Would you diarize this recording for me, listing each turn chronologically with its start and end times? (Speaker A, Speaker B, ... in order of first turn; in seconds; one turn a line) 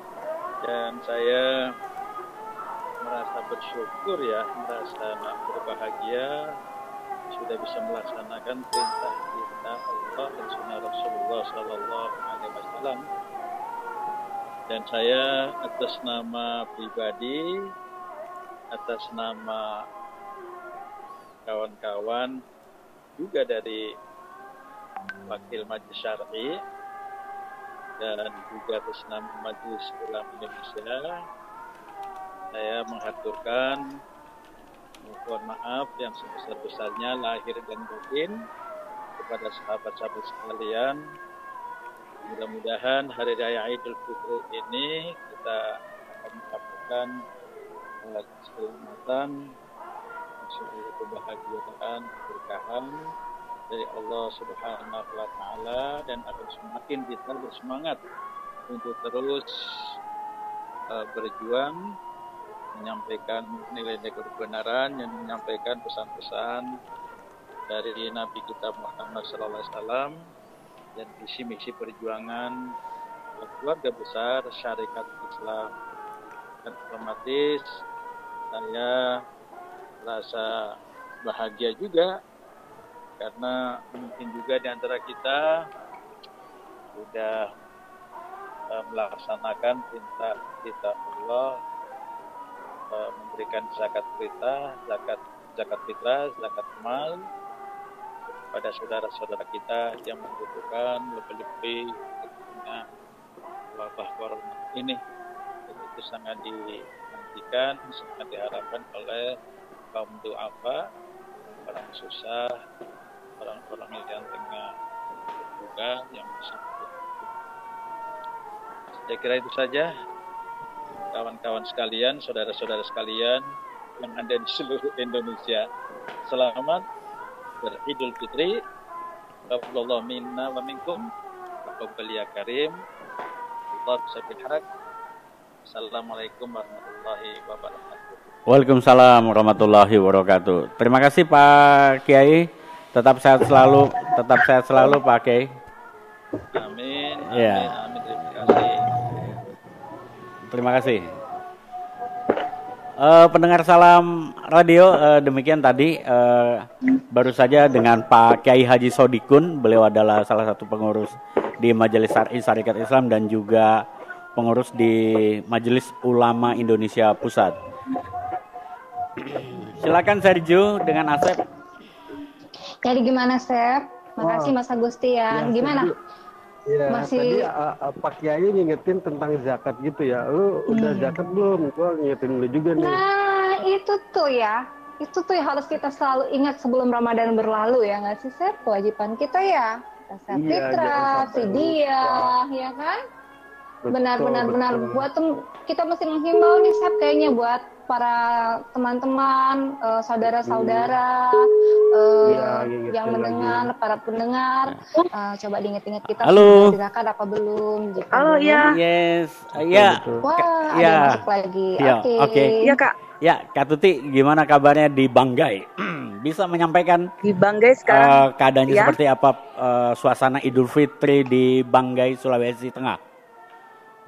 Speaker A: 0.6-1.5
Speaker A: 3.0-6.3
Speaker A: 7.3-13.0
Speaker A: 14.7-17.4
Speaker A: 18.7-19.7
Speaker A: 21.5-22.4
Speaker A: 23.2-23.8
Speaker A: 25.3-26.6
Speaker A: 28.0-31.1
Speaker A: 32.5-33.8
Speaker A: 35.0-38.4
Speaker A: 39.2-41.0
Speaker A: 42.3-47.1
Speaker A: 48.0-49.3
Speaker A: 50.4-53.0
Speaker A: 53.7-58.0
Speaker A: 58.7-59.5
Speaker A: 60.9-61.8
Speaker A: 62.8-66.7
Speaker A: 67.7-70.1
Speaker A: 71.0-72.5
Speaker A: 73.4-75.7
Speaker A: 76.6-77.8
Speaker A: 78.5-79.0
Speaker A: 80.0-80.5
Speaker A: 81.2-82.1
Speaker A: 83.2-85.5
Speaker A: 87.0-87.5
Speaker A: 88.7-91.5
Speaker A: 92.9-97.2
Speaker A: 98.5-102.8
Speaker A: 103.7-105.0
Speaker A: 105.7-106.6
Speaker A: 107.1-109.3
Speaker A: 109.9-110.8
Speaker A: 111.7-112.5
Speaker A: 113.4-114.7
Speaker A: 115.6-117.3
Speaker A: 119.1-119.9
Speaker A: 121.1-123.4
Speaker A: 124.0-125.6
Speaker A: 126.3-126.8
Speaker A: 127.6-128.6
Speaker A: 129.5-131.1
Speaker A: 131.7-132.8
Speaker A: 133.7-134.6
Speaker A: 135.7-138.2
Speaker B: 138.5-145.5
Speaker A: 146.5-148.8
Speaker B: 147.3-147.7
Speaker B: 148.4-149.4
Speaker B: 150.5-151.1
Speaker B: 153.0-163.8
Speaker B: 164.4-167.6
Speaker B: 169.2-171.4
Speaker C: 172.8-175.9
Speaker D: 174.2-174.6
Speaker D: 175.3-175.9
Speaker D: 176.7-183.0
Speaker C: 176.9-177.5
Speaker C: 180.7-181.2
Speaker C: 182.8-193.0
Speaker D: 190.3-192.3
Speaker D: 193.8-195.1
Speaker C: 193.9-208.6
Speaker D: 200.2-201.0
Speaker D: 202.3-203.7
Speaker B: 206.2-206.7
Speaker E: 208.1-208.8
Speaker B: 208.7-211.2
Speaker D: 209.7-210.2
Speaker C: 210.3-212.4
Speaker B: 211.8-212.6
Speaker E: 212.6-213.0
Speaker B: 213.2-217.1
Speaker E: 217.2-219.0
Speaker B: 217.9-223.0